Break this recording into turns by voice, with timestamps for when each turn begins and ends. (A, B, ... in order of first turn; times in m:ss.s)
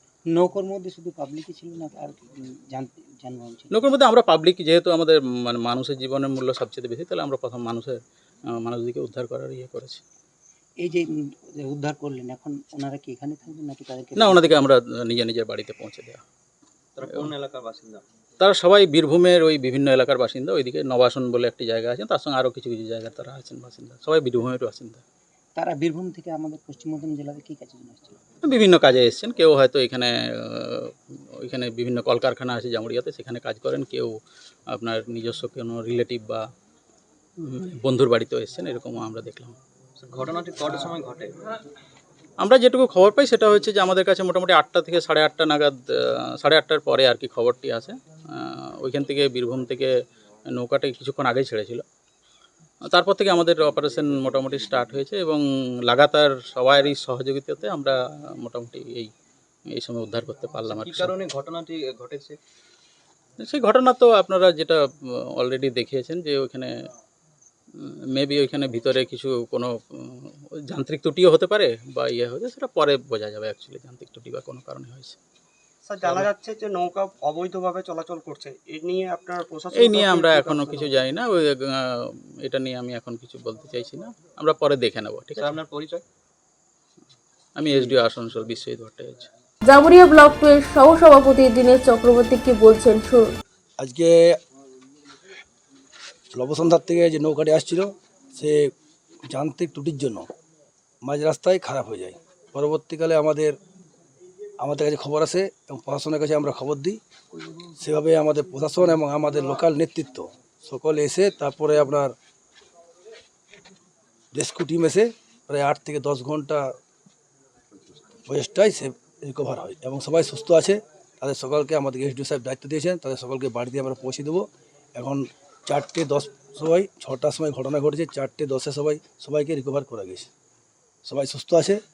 0:00.3-0:03.7 A
0:03.7-0:08.0 B
0:08.6-0:10.0 B
0:10.8-0:14.6 A
0:14.2-0:16.2 B
0:17.0-0:18.0 C
0:18.4-0:25.0 B
0:25.6-0:28.2 A
0:28.4-0:34.2 B
0:34.7-0:36.4 B
0:37.4-0:39.6 B
0:40.0-0:41.4 C
0:42.4-0:49.9 B
0:50.5-0:51.8 B
0:52.9-0:59.1 B
0:59.7-1:01.2 B
1:00.7-1:02.4 C
1:03.4-1:06.7 B
1:07.8-1:15.2 B
1:15.8-1:21.0 D
1:19.8-1:25.6 B
1:25.4-1:26.0 C
1:27.6-1:29.3 B
1:29.6-1:33.4 E
1:33.8-1:34.4 F
1:36.3-1:38.7 F
1:39.3-1:40.3 F
1:41.0-1:43.5 F
1:44.6-1:47.0 F
1:47.8-1:52.1 F
1:54.3-1:56.7 F
1:58.3-2:04.4 F
2:05.0-2:10.3 F
2:11.0-2:11.8 F